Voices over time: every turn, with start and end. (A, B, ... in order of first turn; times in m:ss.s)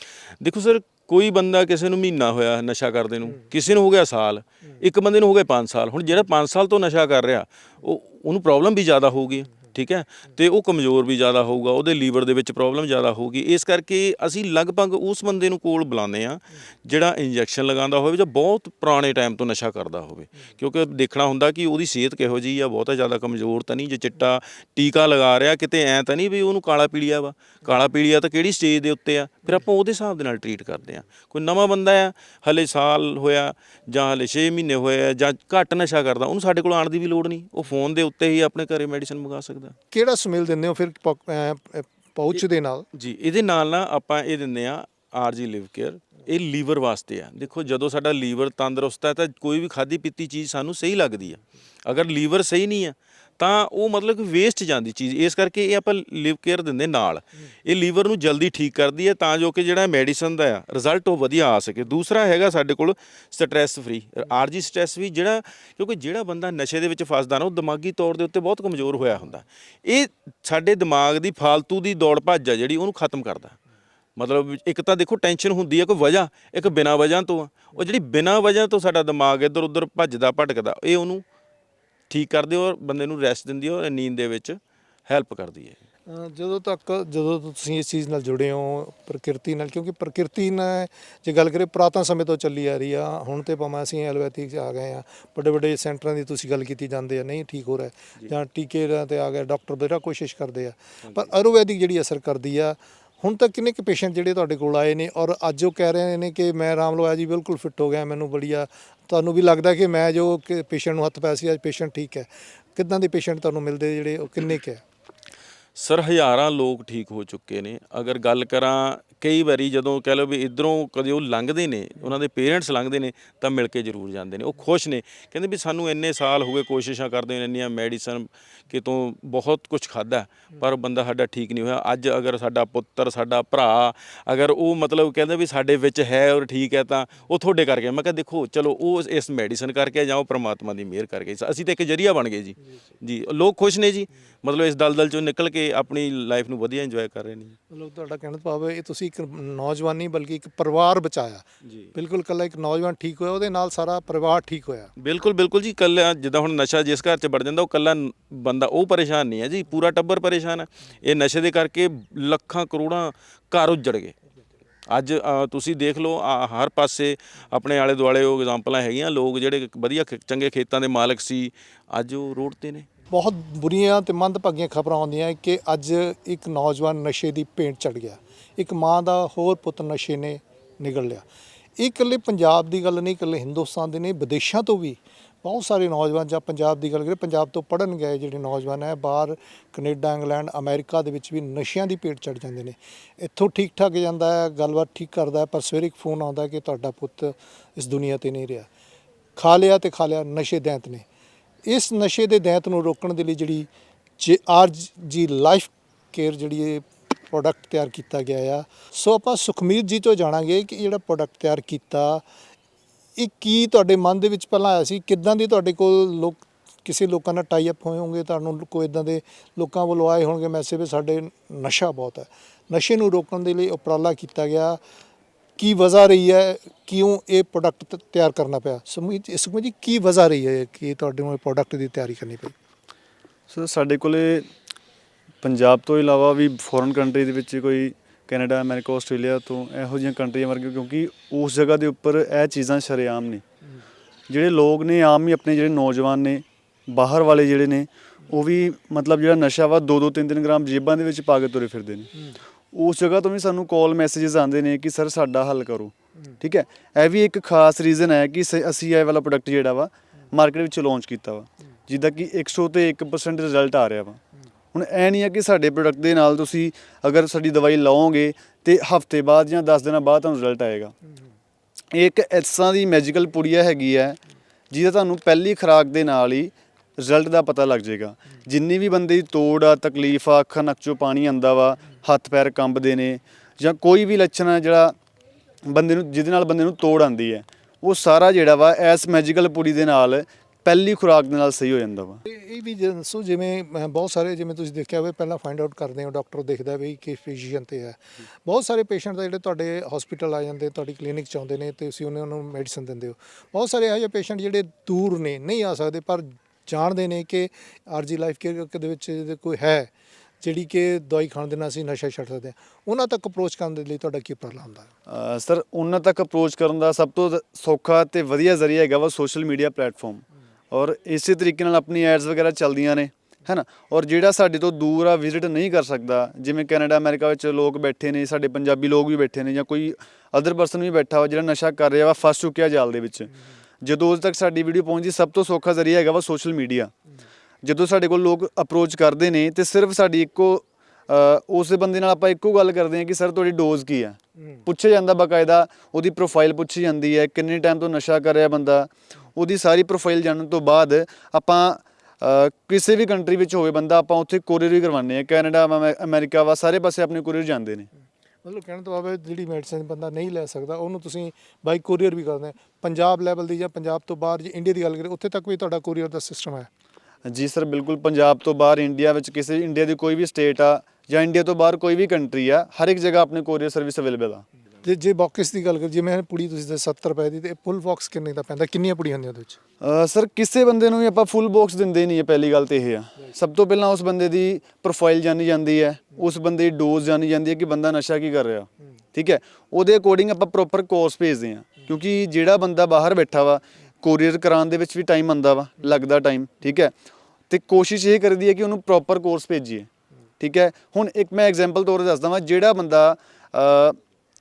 0:00.4-0:39.7 A
0:39.9-0:42.8 B
0:42.9-1:13.6 A
1:14.2-1:21.2 A
1:22.1-1:25.8 A
1:26.1-1:54.8 B
1:55.8-2:27.6 A
2:27.7-2:31.4 B
2:31.9-2:34.9 B
2:35.0-2:44.1 A
2:44.9-2:52.8 A
2:53.1-3:01.2 B
3:01.8-3:18.7 B
3:19.4-3:21.0 B
3:21.6-3:32.2 B
3:33.2-3:44.8 B
3:45.6-3:52.5 B
3:53.5-3:54.5 C
3:55.4-4:03.4 C
4:04.3-4:12.1 C
4:12.7-4:24.2 C
4:24.7-4:30.9 C
4:31.9-4:44.9 C
4:45.7-4:52.2 C
4:52.2-5:09.9 B
5:10.4-5:14.9 B
5:15.1-5:36.9 C
5:37.6-5:57.9 C
5:58.4-6:06.7 B
6:07.2-6:14.4 C
6:14.8-6:19.6 B
6:19.8-6:36.9 C
6:37.5-6:39.9 C
6:40.4-6:44.0 C